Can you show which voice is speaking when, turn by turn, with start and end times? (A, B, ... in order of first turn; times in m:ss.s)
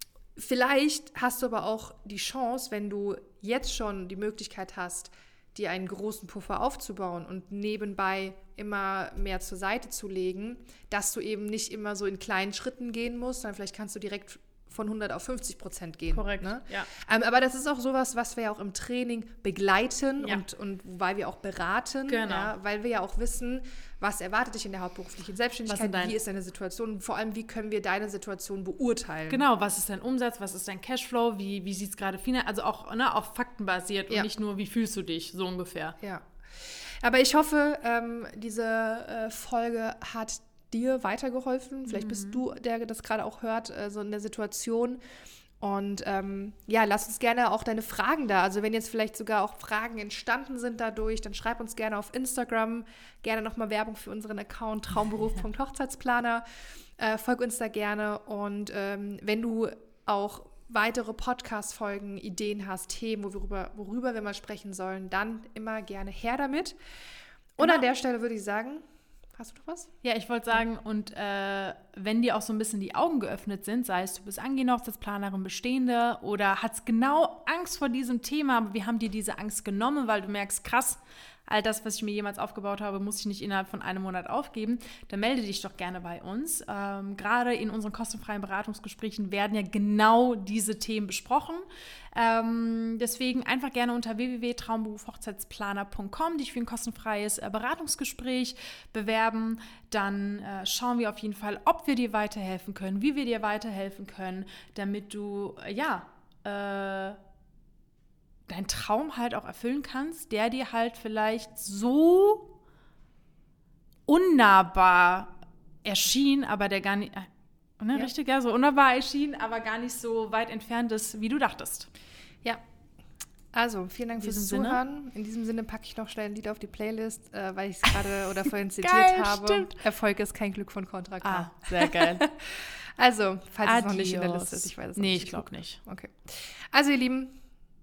0:00.4-0:29.4 A
0:16.1-0:16.9 B
0:22.1-0:22.5 B
0:25.7-0:26.2 B
0:29.3-0:36.0 B
0:36.0-0:45.0 A
0:41.9-0:42.4 B
0:45.6-0:56.4 A
0:57.0-1:06.8 A
1:07.6-1:08.8 A
1:09.4-1:09.9 A
1:10.0-1:47.2 B
1:48.5-1:52.5 B
1:54.1-2:01.9 B
2:03.5-2:17.4 A
2:04.2-2:04.8 B
2:08.8-2:09.8 B
2:11.2-2:12.3 B
2:13.6-2:15.8 B